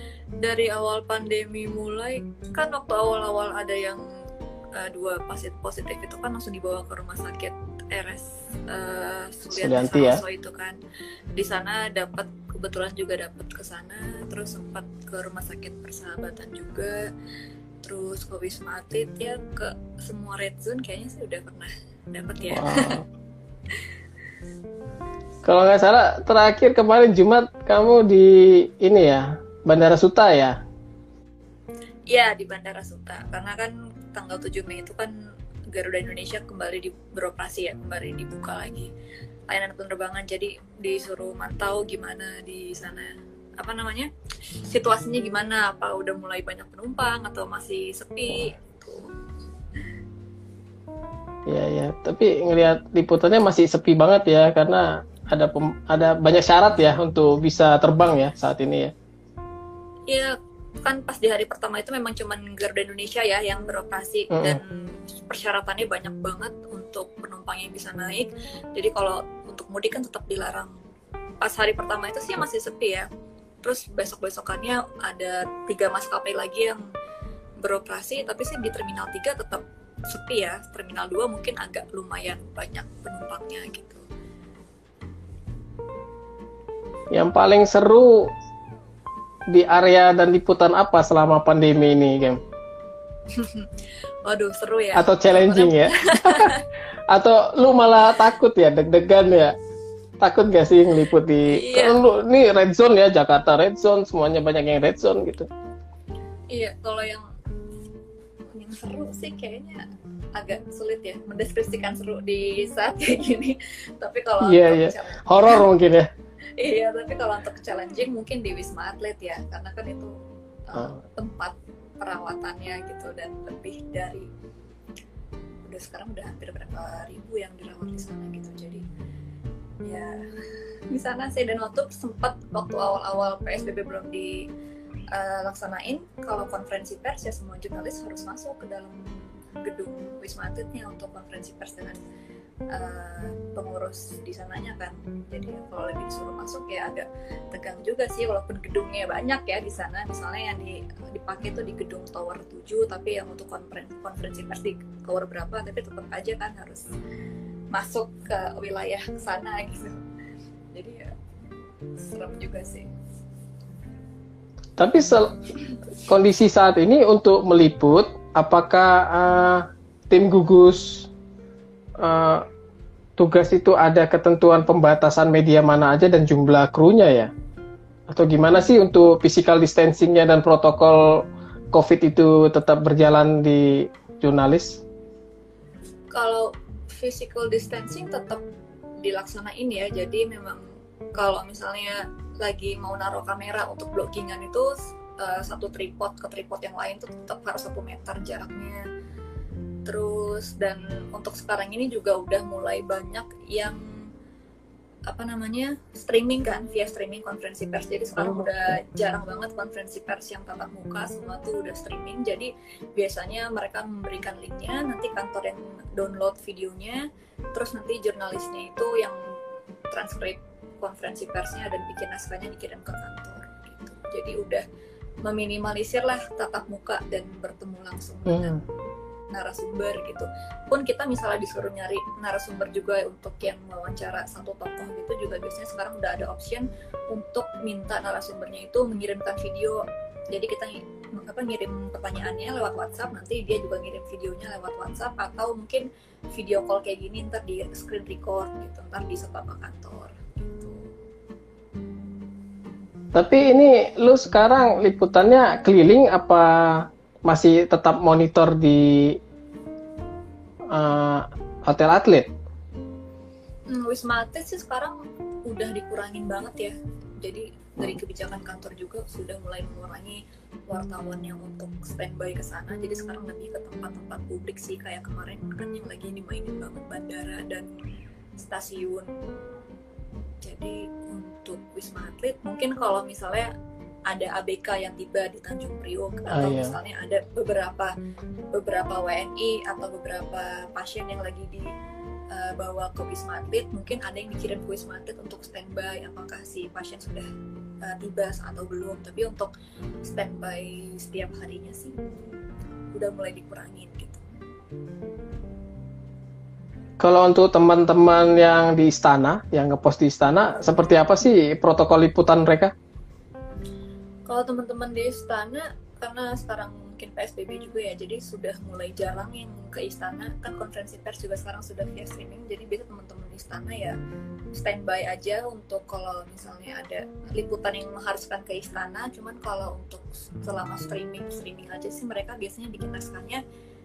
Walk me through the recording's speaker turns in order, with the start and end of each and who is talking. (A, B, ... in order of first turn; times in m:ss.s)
0:00.4-0:04.1 A
0:04.8-0:10.8 A
0:09.5-0:10.2 B
0:11.4-0:17.1 A
0:17.8-0:23.0 A
0:22.5-0:23.1 B
0:25.4-0:30.6 B
0:32.1-0:35.1 A
0:35.7-0:38.9 A
0:39.5-0:44.1 A
0:44.6-0:49.1 A
0:51.5-0:58.9 B
1:00.1-1:10.7 A
1:04.3-1:04.6 B
1:11.4-1:13.1 A
1:13.6-1:16.8 A
1:17.6-1:24.0 A
1:27.1-1:28.3 B
1:29.5-1:32.4 B
1:33.3-1:33.7 A
1:34.2-1:36.6 A
1:34.9-1:36.6 B
1:37.1-1:39.6 B
1:40.2-1:45.5 B
1:41.0-1:42.0 A
1:46.5-1:47.2 A
1:48.5-1:55.7 A
1:54.4-1:56.1 B
1:56.6-2:00.1 A
2:00.7-2:04.3 A
2:05.6-2:08.8 A
2:09.8-2:10.2 A
2:10.9-2:14.5 A
2:15.1-2:22.0 A
2:22.7-2:36.9 A
2:37.7-2:40.0 A
2:40.7-2:41.1 A
2:42.0-2:42.9 A
2:44.8-2:45.4 B
2:46.1-2:51.1 B
2:52.0-2:52.4 B
2:53.2-2:57.3 B
2:58.1-3:04.8 B
3:06.1-3:08.4 A
3:09.0-3:18.8 A
3:19.9-3:24.1 A
3:25.1-3:39.4 A
3:28.2-3:28.8 B
3:39.9-3:44.6 A
3:45.2-3:48.6 A
3:48.3-3:48.6 B
3:49.3-4:10.9 A
4:13.1-4:19.2 B
4:20.7-4:22.3 B
4:23.7-4:37.7 A
4:38.4-4:39.1 A
4:40.4-4:43.5 A
4:44.1-4:47.9 A
4:46.3-4:46.8 B
4:48.5-4:51.7 A
4:52.3-4:57.3 A
4:57.8-4:59.5 A
5:00.0-5:04.2 A
5:07.0-5:12.7 B
5:14.3-5:24.0 A
5:24.5-5:33.4 A